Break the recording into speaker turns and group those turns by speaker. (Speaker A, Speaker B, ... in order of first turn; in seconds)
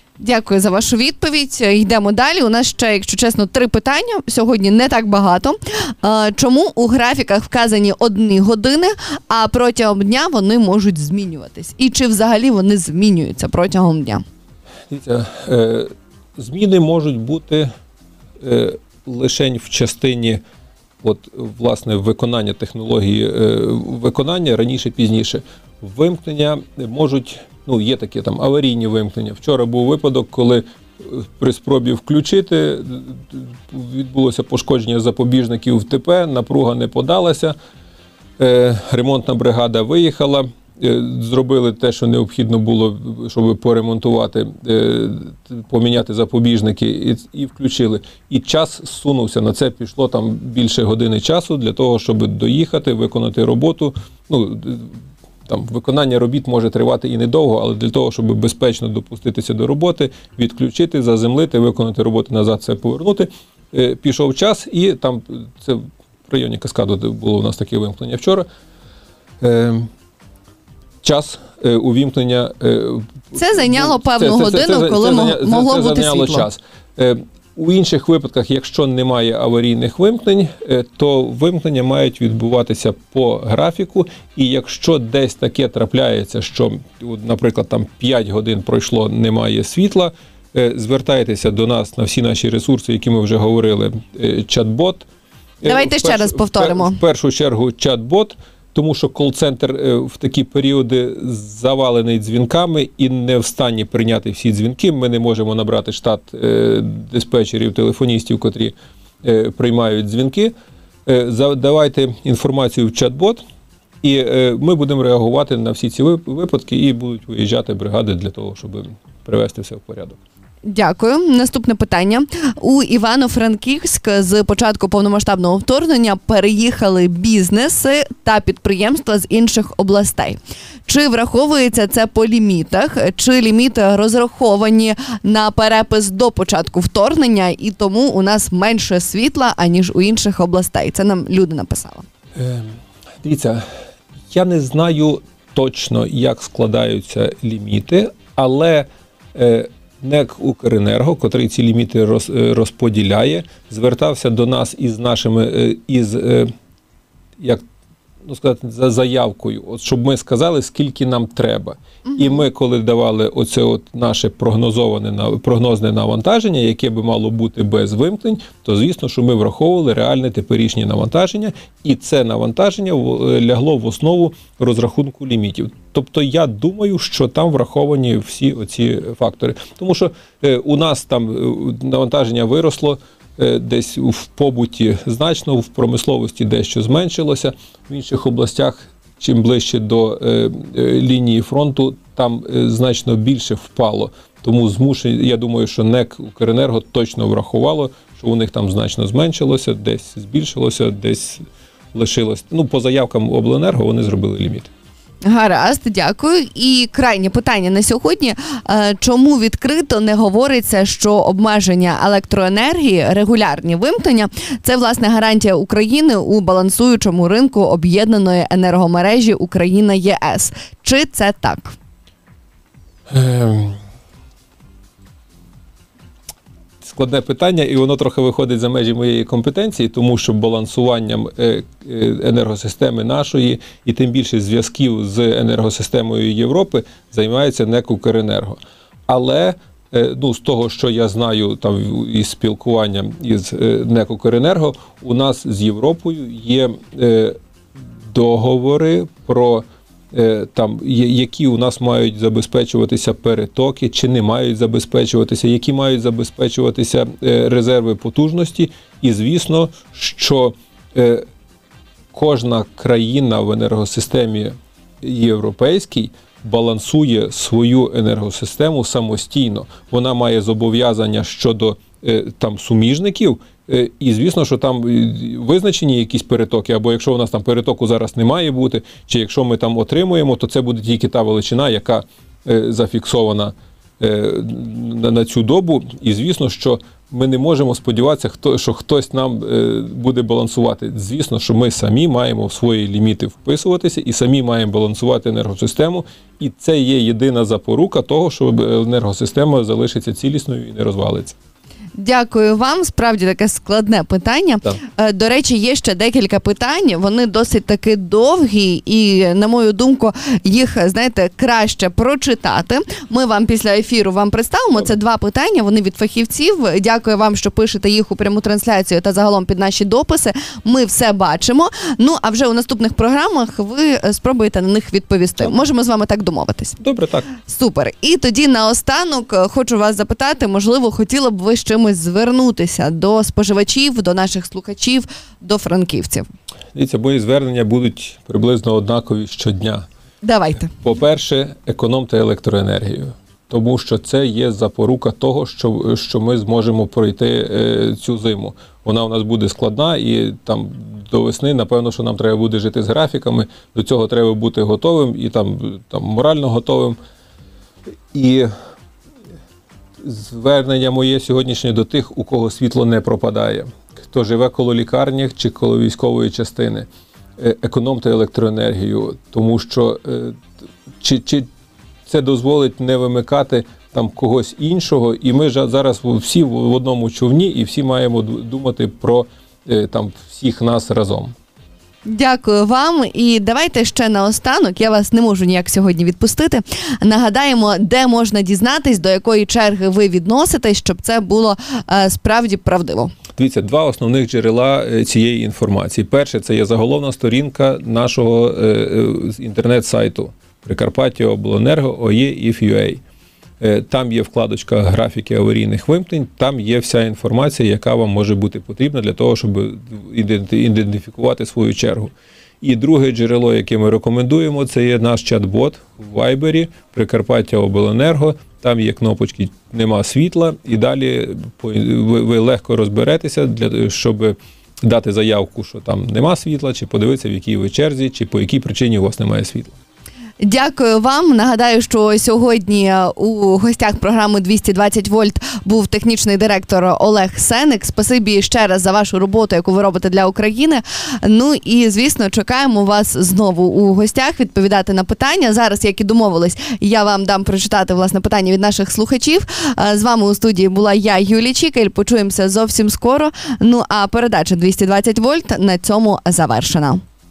Speaker A: 0.2-14.2, 73.3-76.5, 95.6-97.0, 120.6-142.1, 162.0-162.4, 205.2-221.8, 302.0-326.8, 327.4-336.3, 340.2-340.7, 382.1-393.1, 430.4-457.0
Speaker B: 14.9-17.7, 18.4-20.4, 21.0-37.5, 38.4-68.5, 69.4-69.9, 71.0-95.0, 95.6-110.5, 111.0-113.4, 114.0-120.2, 142.3-143.6, 144.3-156.5, 158.2-201.4, 201.9-204.7, 223.1-223.8, 226.8-247.3, 248.1-261.2, 262.1-301.4, 326.8-327.3, 336.7-339.9, 340.7-357.0, 358.1-358.5, 360.0-366.9, 367.4-370.4, 371.0-371.5, 372.1-381.3, 393.4-403.0, 403.6-429.7